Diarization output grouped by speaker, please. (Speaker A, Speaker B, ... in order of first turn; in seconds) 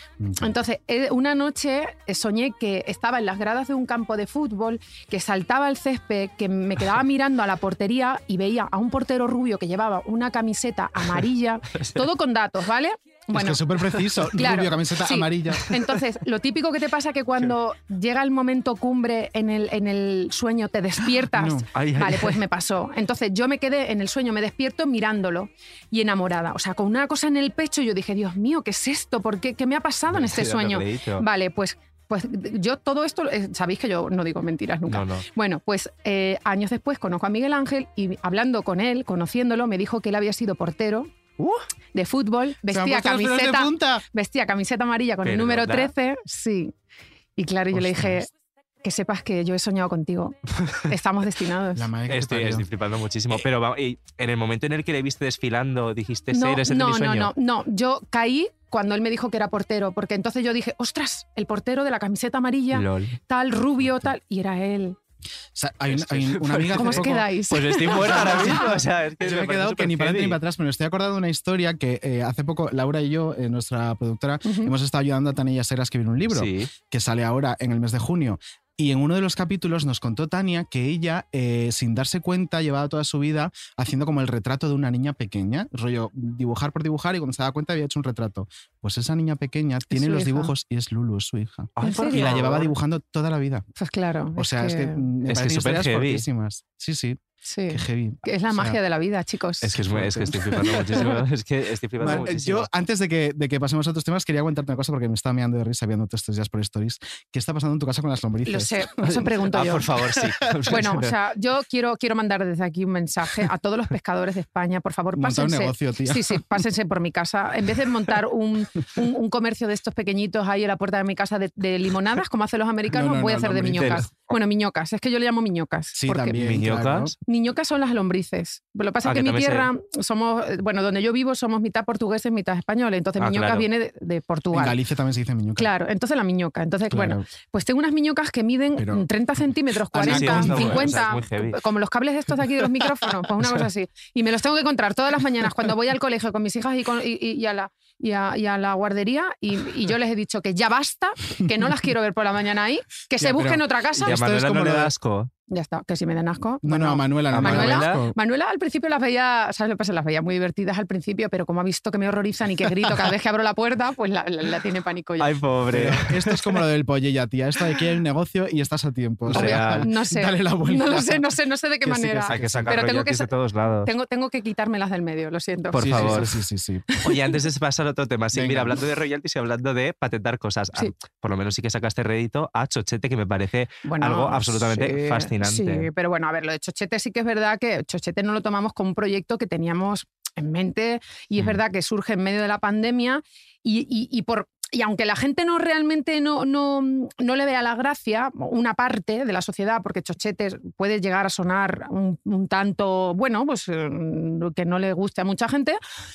Speaker A: 0.2-0.5, 13.3-15.7, 21.3-21.7, 42.7-44.0, 47.7-48.3, 51.8-52.7, 65.5-67.3, 67.8-93.7, 94.4-98.8, 99.8-101.2, 102.0-109.3, 115.2-116.5, 122.9-124.1, 126.0-127.1, 134.5-135.7, 136.9-137.2, 138.8-139.1, 139.9-141.1, 153.2-154.9, 156.6-158.2, 165.7-171.3, 171.8-172.8, 175.8-176.9, 178.3-178.8
Speaker B: 0.4-13.7, 14.2-41.1, 41.9-46.7, 47.4-48.3, 48.8-51.9, 56.3-65.0, 66.7-68.8, 74.5-74.7, 89.9-90.5, 91.8-92.5, 93.8-95.1, 97.5-99.8, 108.5-109.9, 110.7-126.5, 127.3-134.8, 135.6-154.2, 155.5-165.4, 169.3-173.3, 173.8-176.3, 176.9-177.3, 183.8-205.8
Speaker C: 21.7-22.4, 30.1-31.2, 34.9-35.2, 45.2-45.9, 52.1-57.3, 62.7-63.2, 65.9-70.4, 76.3-76.7, 91.8-92.7, 95.2-96.2, 99.6-102.7, 109.4-111.1, 126.4-127.1, 129.1-129.7, 133.2-133.7, 140.0-141.6, 154.0-155.3, 157.3-158.0, 165.2-166.4, 169.3-169.9, 172.3-173.9, 175.7-176.3, 177.0-185.9